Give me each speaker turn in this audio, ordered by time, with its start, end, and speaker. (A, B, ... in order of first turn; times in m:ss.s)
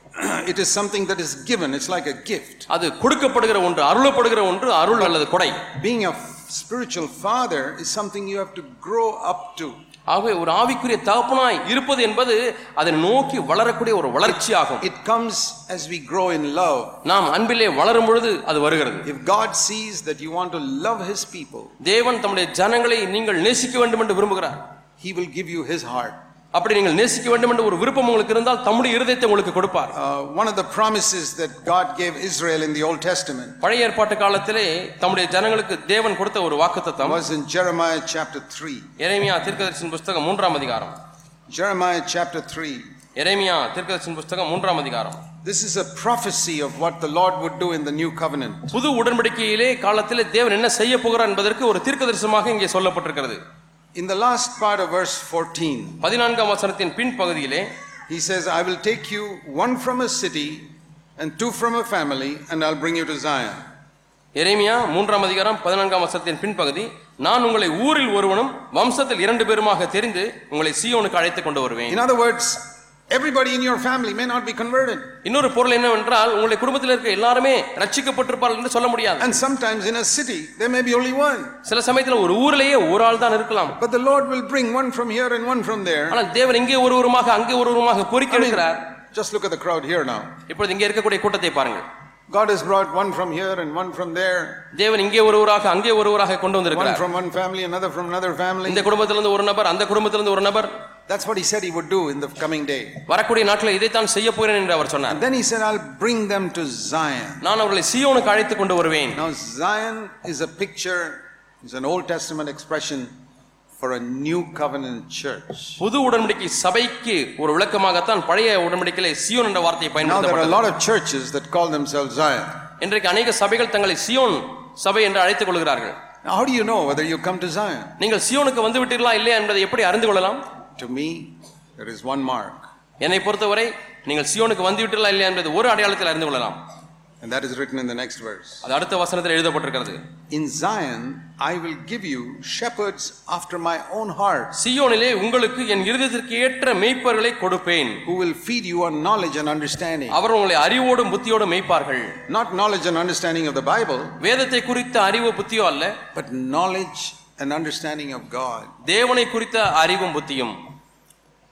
0:00.2-0:02.7 A
0:02.7-0:05.6 B
0:05.7-0:09.8 A
0:10.1-0:14.8 B
0:14.8-0:17.0 A
0:17.0-0:19.1 B
0:19.0-0:21.7 A
0:21.8-0:24.6 B
0:25.0-0:26.2 A
0:26.5-0:29.9 B
0:29.9-0:33.6 A
0:33.6-0:37.2 B
0:37.0-0:38.9 A
0:39.0-0:41.0 B
0:41.5-0:42.9 A
0:43.2-0:45.2 B
0:45.4-0:48.8 A
0:48.7-0:53.4 B
0:54.0-0:56.0 A
0:56.0-0:57.7 B
0:58.1-1:03.6 A
1:04.4-1:12.0 B
1:11.9-1:15.1 A
1:15.2-1:19.3 B
1:19.2-1:21.6 A
1:21.6-1:23.8 B
1:23.8-1:26.2 A
1:26.1-1:28.8 B
1:28.3-1:30.4 A
1:30.5-1:31.8 B
1:32.3-1:34.7 A
1:34.7-1:37.0 B
1:36.7-1:38.9 A
1:38.6-1:40.7 B
1:41.1-1:43.0 A
1:43.1-1:45.2 B
1:45.1-1:47.4 A
1:47.4-1:49.2 B
1:49.1-1:53.1 A
1:53.8-1:55.8 A
1:55.8-2:00.7 B
2:00.0-2:02.6 A
2:02.8-2:06.0 B
2:06.2-2:08.0 A
2:08.0-2:10.4 B
2:10.8-2:12.7 A
2:13.0-2:16.6 B
2:17.2-2:18.6 A
2:18.6-2:20.0 B
2:20.3-2:24.6 A
2:24.6-2:28.0 B
2:28.0-2:30.2 A
2:30.1-2:32.2 B
2:32.3-2:34.2 A
2:34.2-2:36.0 B
2:36.2-2:38.7 A
2:38.8-2:40.6 B